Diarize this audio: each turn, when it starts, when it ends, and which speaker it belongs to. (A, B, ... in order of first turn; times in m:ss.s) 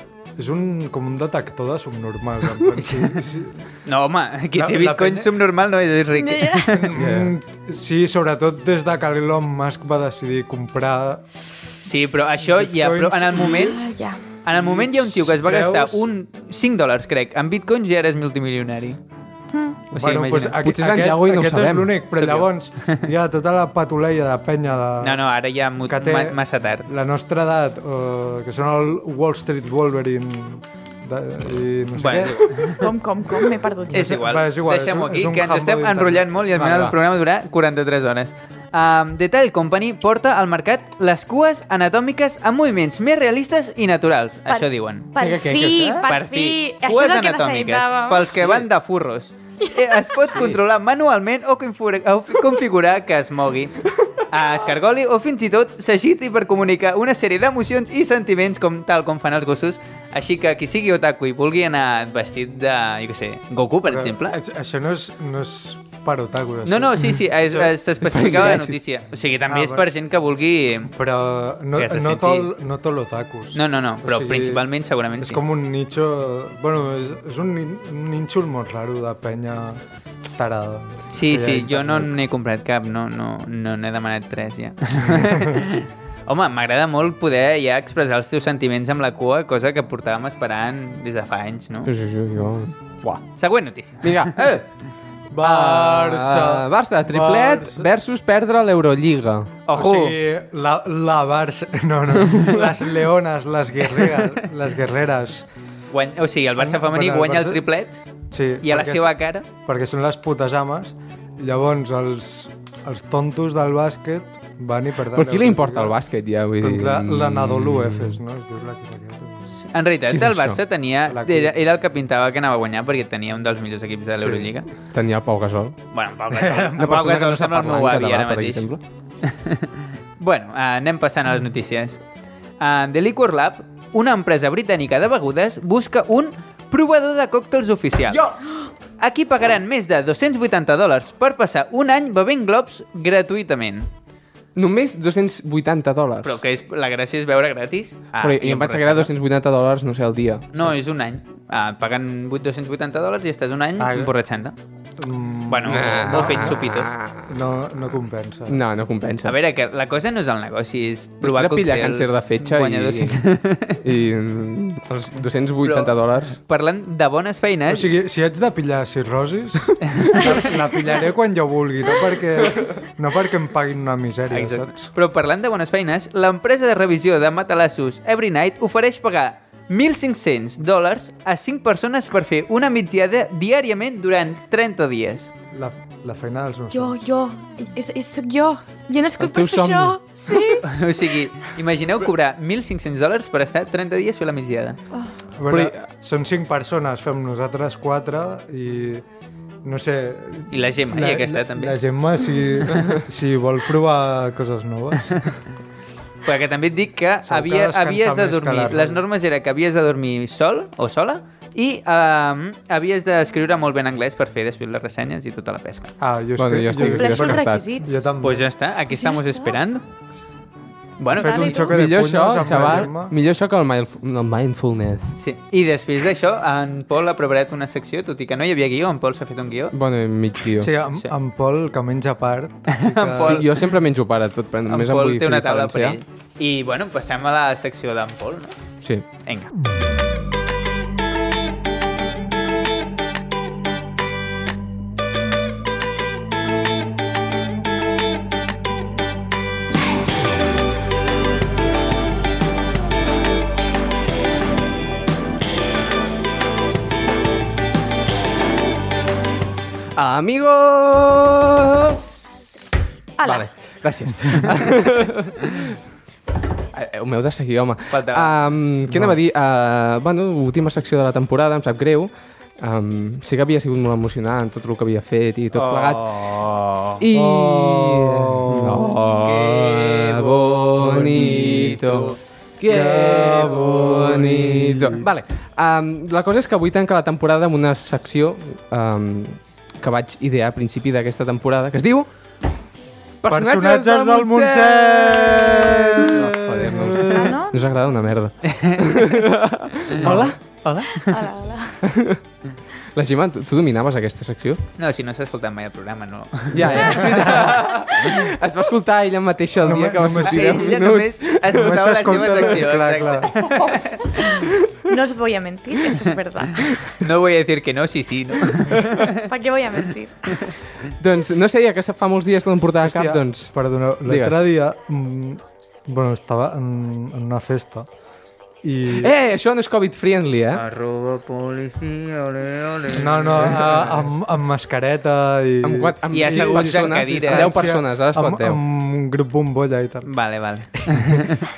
0:00.4-0:03.6 A
0:02.8-0:03.2 B
0:03.8-0:06.9 B
0:04.5-0:05.3 A
0:06.1-0:06.7 C
0:06.7-0:11.2 A
0:07.0-0:07.3 D
0:11.8-0:13.8 B
0:12.4-0:13.5 A
0:13.4-0:14.2 C
0:14.4-0:19.0 B
0:14.5-0:16.1 A
0:19.5-0:19.8 C
0:19.9-0:20.6 B
0:20.0-0:25.2 A
0:20.6-0:22.0 D
0:22.2-0:23.0 B
0:25.0-0:26.9 B
0:25.9-0:32.7 A
0:32.0-0:32.9 B
0:32.8-0:34.2 C
0:33.9-0:36.3 A
0:33.9-0:45.1 B
0:36.5-0:37.0 D
0:44.5-0:48.3 C
0:45.2-0:46.1 D
0:46.1-1:04.4 B
0:49.8-0:50.2 C
1:03.9-1:08.2 A
1:06.6-1:10.9 B
1:08.0-1:08.8 D
1:09.5-1:09.9 A
1:10.9-1:14.6 A
1:11.8-1:12.5 B
1:13.5-1:15.4 B
1:15.2-1:19.8 A
1:20.3-1:22.1 A
1:21.1-1:31.9 B
1:25.0-1:25.6 A
1:31.9-1:33.2 D
1:33.4-1:34.4 B
1:34.0-1:34.7 D
1:35.3-1:37.9 A
1:35.4-1:39.5 D
1:39.7-1:40.2 B
1:39.7-1:45.5 A
1:45.9-1:48.0 B
1:46.6-1:47.6 A
1:48.3-1:56.0 A
1:48.6-1:49.5 B
1:55.1-1:58.2 D
1:56.6-1:59.5 A
1:59.7-2:04.7 B
2:00.1-2:00.6 D
2:01.1-2:01.6 A
2:04.9-2:05.8 D
2:05.9-2:08.7 B
2:06.3-2:07.0 A
2:06.8-2:08.8 D
2:09.2-2:12.0 B
2:12.6-2:18.2 B
2:18.1-2:18.4 D
2:19.0-2:23.9 B
2:24.6-2:26.4 D
2:26.2-2:29.1 B
2:28.2-2:30.7 D
2:30.5-2:34.6 B
2:33.8-2:34.1 A
2:35.0-2:36.7 A
2:35.5-2:36.9 B
2:35.7-2:37.4 D
2:37.3-2:38.6 A
2:38.5-2:39.4 D
2:39.2-2:43.8 B
2:41.2-2:43.2 D
2:43.8-2:46.4 D
2:45.6-2:47.9 B
2:47.7-2:54.9 A
2:49.9-2:50.5 B
2:54.3-3:05.3 B
3:05.5-3:07.0 A
3:06.7-3:10.8 C
3:09.2-3:10.0 D
3:10.6-3:14.8 B
3:15.4-3:19.0 A
3:15.5-3:15.9 D
3:19.6-3:25.2 A
3:20.5-3:21.8 B
3:26.2-3:35.9 B
3:27.2-3:29.0 A
3:36.0-3:38.5 A
3:36.4-3:37.7 D
3:36.8-3:38.0 C
3:38.2-3:39.8 B
3:38.9-3:39.6 C
3:41.0-3:41.7 B
3:41.1-3:43.1 A
3:41.2-3:41.7 C
3:41.7-3:45.2 D
3:45.2-3:49.7 B
3:49.7-3:50.7 D
3:50.6-3:53.4 A
3:50.8-3:51.1 B
3:52.7-3:53.5 B
3:53.2-3:56.0 D
3:54.7-3:58.6 B
4:20.0-4:22.2 D
4:23.2-4:23.5 C
4:23.2-4:25.7 D
4:26.7-4:36.0 D
4:27.9-4:28.3 B
4:28.9-4:29.2 A
4:35.5-4:37.0 B
4:37.0-4:52.1 D
4:37.1-4:39.1 A
4:39.1-4:42.2 B
4:40.8-4:42.1 A
4:42.6-4:45.1 A
4:53.2-5:00.4 D
4:53.3-4:57.3 A
4:57.0-4:57.6 C
4:58.4-4:59.2 B
5:00.0-5:00.4 A
5:00.0-5:01.2 B
5:01.0-5:01.8 C
5:01.8-5:02.2 D
5:03.0-5:04.6 D
5:04.8-5:07.4 B
5:06.5-5:11.8 D
5:06.9-5:07.4 A
5:07.7-5:08.2 C
5:09.6-5:10.8 A
5:10.2-5:14.3 B
5:11.5-5:13.5 A
5:14.9-5:16.8 C
5:17.0-5:19.2 B
5:19.2-5:20.5 C
5:21.0-5:23.5 D
5:22.8-5:27.9 A
5:24.0-5:24.5 D
5:28.6-5:29.1 A
5:29.0-5:30.6 D
5:30.6-5:33.4 B
5:32.9-5:40.1 A
5:35.6-5:38.6 D
5:36.1-5:37.6 B
5:40.0-5:41.5 B
5:40.8-5:41.2 A